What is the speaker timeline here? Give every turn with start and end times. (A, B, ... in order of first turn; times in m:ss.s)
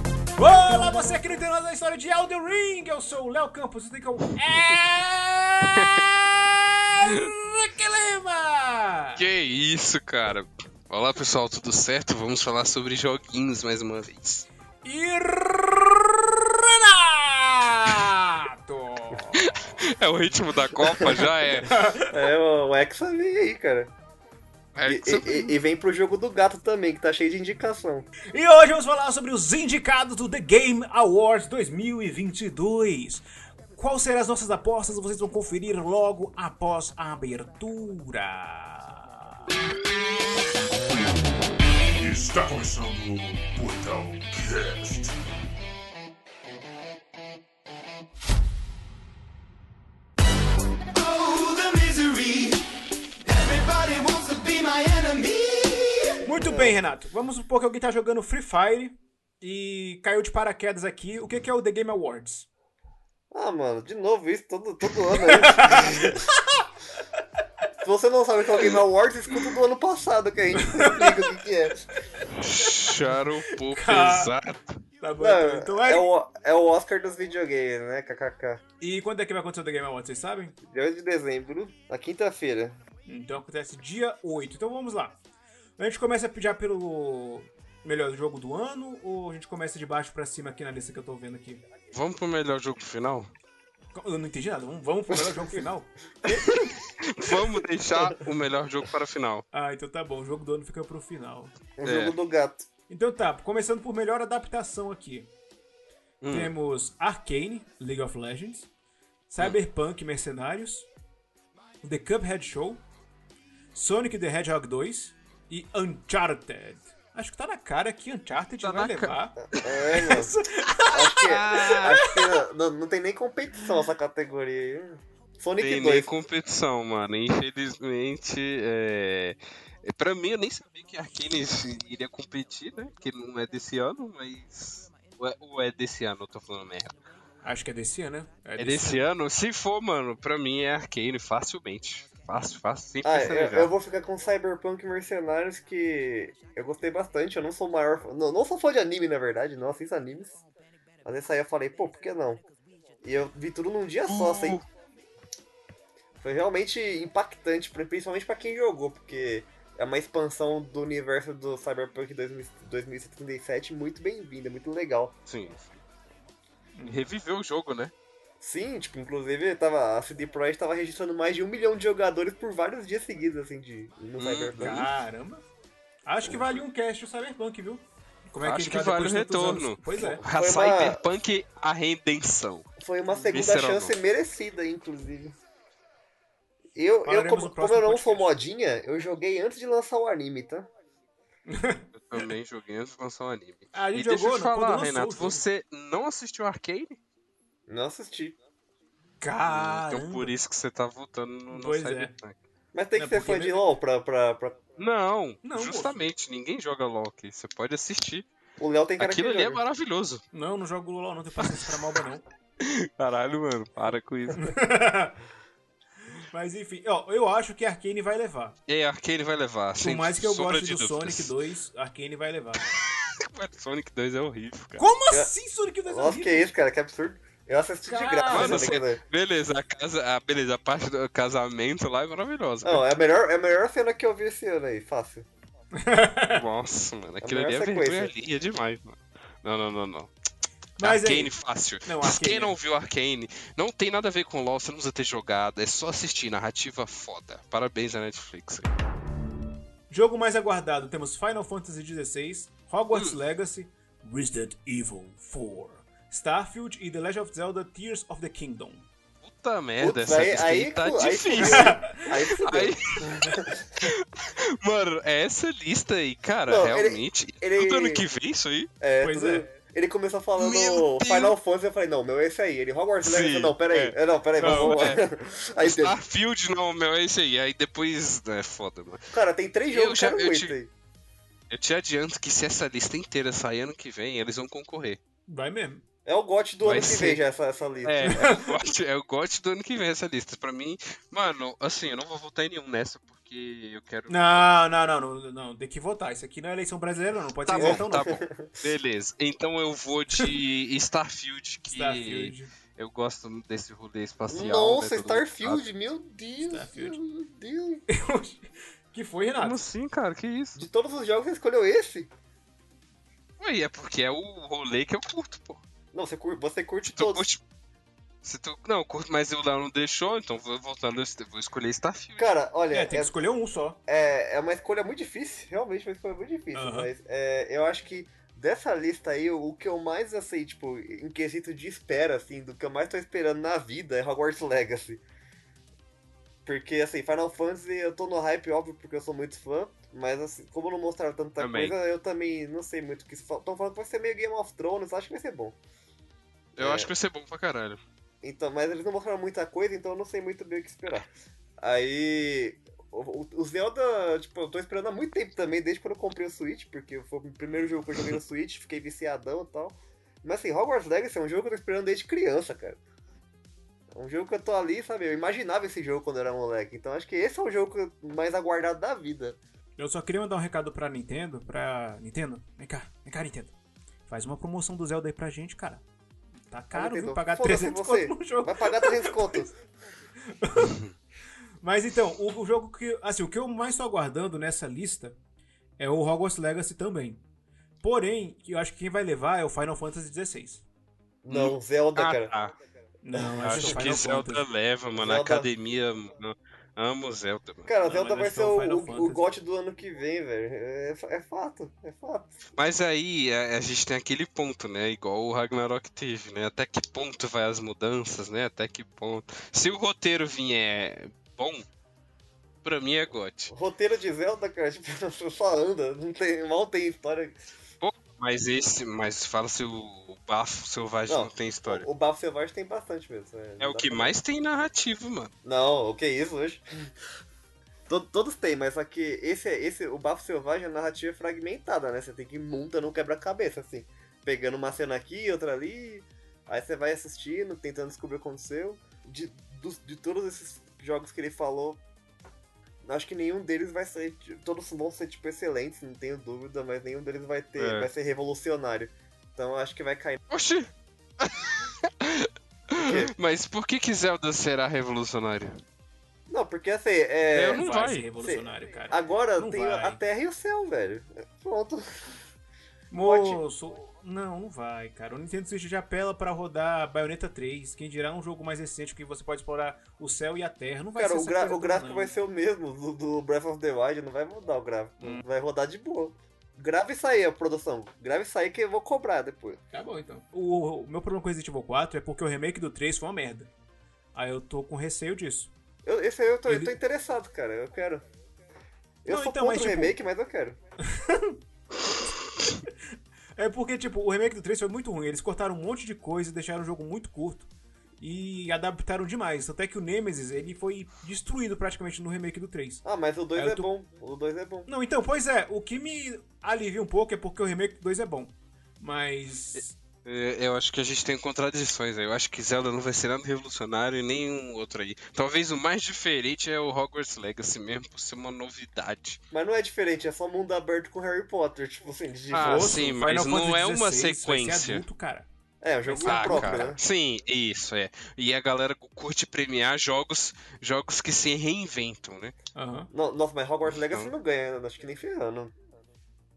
0:00.4-0:09.2 A
0:05.6-0:06.1 B
0:09.2-0:14.5 B
0:14.8-0:19.8 A
0:19.3-0:21.8 B
0:20.9-0:21.2 C
0:21.6-0:22.2 A
0:22.0-0:23.9 C
0:24.8-0:25.6 B
0:24.9-0:28.1 C
0:28.2-0:39.1 A
0:41.9-0:45.2 D
0:50.9-0:52.6 E
0:53.2-0:56.2 E
0:56.2-1:02.5 A
0:56.4-0:56.8 C
1:03.3-1:06.2 C
1:05.1-1:06.7 A
1:07.8-1:11.8 C
1:10.6-1:11.2 A
1:12.2-1:14.3 A
1:12.4-1:14.8 B
1:15.0-1:16.1 A
1:15.2-1:18.6 C
1:18.8-1:20.6 A
1:20.6-1:22.8 C
1:23.0-1:25.2 A
1:25.8-1:31.6 A
1:31.9-1:33.3 B
1:33.9-1:36.7 A
1:35.1-1:35.4 C
1:37.0-1:39.4 B
1:39.5-1:41.5 A
1:41.8-1:42.7 C
1:41.8-1:42.2 B
1:42.9-1:45.3 A
1:46.2-1:46.5 B
1:46.3-1:48.7 A
1:49.3-1:50.9 A
1:51.8-1:52.8 A
1:53.7-2:02.4 A
1:58.6-1:59.6 B
1:59.4-2:00.3 C
2:00.9-2:06.1 C
2:05.6-2:17.0 B
2:17.4-2:19.1 A
2:18.6-2:23.7 B
2:23.0-2:30.4 C
2:31.0-2:32.4 C
2:33.0-2:34.6 C
2:34.1-2:34.6 B
2:36.2-2:45.1 C
2:45.3-2:45.7 B
2:46.8-2:47.0 A
2:46.9-2:47.9 B
2:48.4-2:54.8 C
2:54.2-2:54.9 B
2:54.6-2:55.4 A
2:56.1-3:00.2 A
2:56.2-2:56.6 C
2:58.4-3:02.7 B
3:00.3-3:01.0 C
3:02.8-3:05.4 C
3:03.3-3:04.0 B
3:06.8-3:10.7 C
3:07.1-3:08.3 A
3:11.5-3:11.9 A
3:12.0-3:17.0 B
3:13.7-3:15.4 A
3:17.7-3:18.4 C
3:19.2-3:20.3 A
3:19.5-3:22.4 B
3:21.5-3:22.1 A
3:22.7-3:24.6 C
3:23.0-3:23.7 A
3:24.8-3:28.3 B
3:25.4-3:26.0 A
3:28.6-3:29.6 C
3:29.0-3:30.2 B
3:30.3-3:32.2 A
3:32.6-3:34.6 B
3:34.4-3:35.2 A
3:36.3-3:38.6 A
3:38.7-3:41.3 B
3:39.8-3:42.6 A
3:42.7-3:44.8 B
3:44.8-3:46.5 A
3:45.9-3:49.0 C
3:47.9-3:48.8 A
3:48.3-3:52.9 B
3:52.6-3:55.3 C
3:55.8-3:56.4 A
3:56.3-4:00.1 B
3:57.2-3:58.1 C
4:00.8-4:01.3 A
4:00.8-4:08.7 B
4:01.8-4:02.5 A
4:09.9-4:18.9 A
4:19.2-4:21.8 B
4:19.8-4:23.7 C
4:21.4-4:22.1 A
4:22.4-4:28.7 B
4:26.5-4:28.0 C
4:28.8-4:36.0 C
4:29.0-4:29.4 A
4:30.4-4:31.3 B
4:33.0-4:35.0 B
4:34.4-4:35.0 A
4:35.6-4:39.1 B
4:39.1-4:40.7 C
4:39.7-4:40.6 B
4:41.5-4:45.0 B
4:45.3-4:45.8 A
4:46.1-4:48.3 C
4:46.6-4:47.2 B
4:47.8-4:54.5 B
4:48.0-4:48.4 A
4:54.1-4:58.2 A
4:57.4-5:05.6 B
4:57.6-4:58.7 C
5:01.7-5:02.5 A
5:04.3-5:07.8 C
5:06.4-5:07.0 A
5:07.9-5:09.7 A
5:09.4-5:10.6 B
5:10.6-5:12.1 C
5:13.4-5:15.6 B
5:15.9-5:17.2 C
5:16.8-5:17.4 B
5:18.2-5:22.3 B
5:22.2-5:23.1 C
5:22.7-5:23.8 A
5:23.9-5:35.0 C
5:26.6-5:26.9 A
5:36.4-5:45.6 C
5:41.4-5:41.8 B
5:46.6-5:47.8 B
5:46.6-5:46.9 C
5:48.2-6:02.8 C
6:03.9-6:09.4 C
6:09.8-6:13.5 A
6:14.1-6:15.8 A
6:16.5-6:19.5 A
6:16.7-6:19.5 C
6:20.2-6:20.8 A
6:20.6-6:20.9 B
6:21.6-6:25.2 A
6:25.8-6:27.2 A
6:27.8-6:30.6 A
6:31.2-6:32.3 C
6:31.3-6:32.5 B
6:33.0-6:34.4 A
6:33.1-6:34.0 C
6:33.4-6:37.7 B
6:35.0-6:35.5 C
6:37.7-6:42.4 C
6:37.8-6:39.2 A
6:42.5-6:51.6 B
6:52.6-6:53.5 B
6:53.5-6:57.5 C
6:57.8-7:01.9 B
7:01.1-7:04.2 C
7:03.6-7:05.3 B
7:05.4-7:06.9 C
7:07.9-7:21.8 C
7:22.8-7:30.2 C
7:27.6-7:27.9 B
7:30.3-7:35.6 B
7:32.8-7:33.1 C
7:36.3-7:37.7 C
7:37.3-7:40.0 A
7:37.4-7:38.1 B
7:38.2-7:42.1 C
7:42.9-7:52.1 A
7:43.0-7:43.4 C
7:51.0-7:59.6 C
7:59.7-8:03.5 A
8:04.1-8:05.5 A
8:05.8-8:08.0 C
8:06.5-8:06.8 A
8:09.0-8:10.6 C
8:09.1-8:10.0 A
8:10.8-8:11.4 A
8:13.4-8:17.5 A
8:18.0-8:22.8 A
8:22.8-8:24.7 C
8:23.4-8:23.7 A
8:24.7-8:29.7 A
8:30.0-8:39.2 B
8:39.3-8:42.8 C
8:42.3-8:44.8 B
8:42.4-8:45.3 A
8:45.6-8:46.8 C
8:45.8-8:46.7 A
8:46.0-8:52.4 B
8:52.6-8:52.9 A
8:52.9-8:55.5 C
8:53.7-8:54.1 B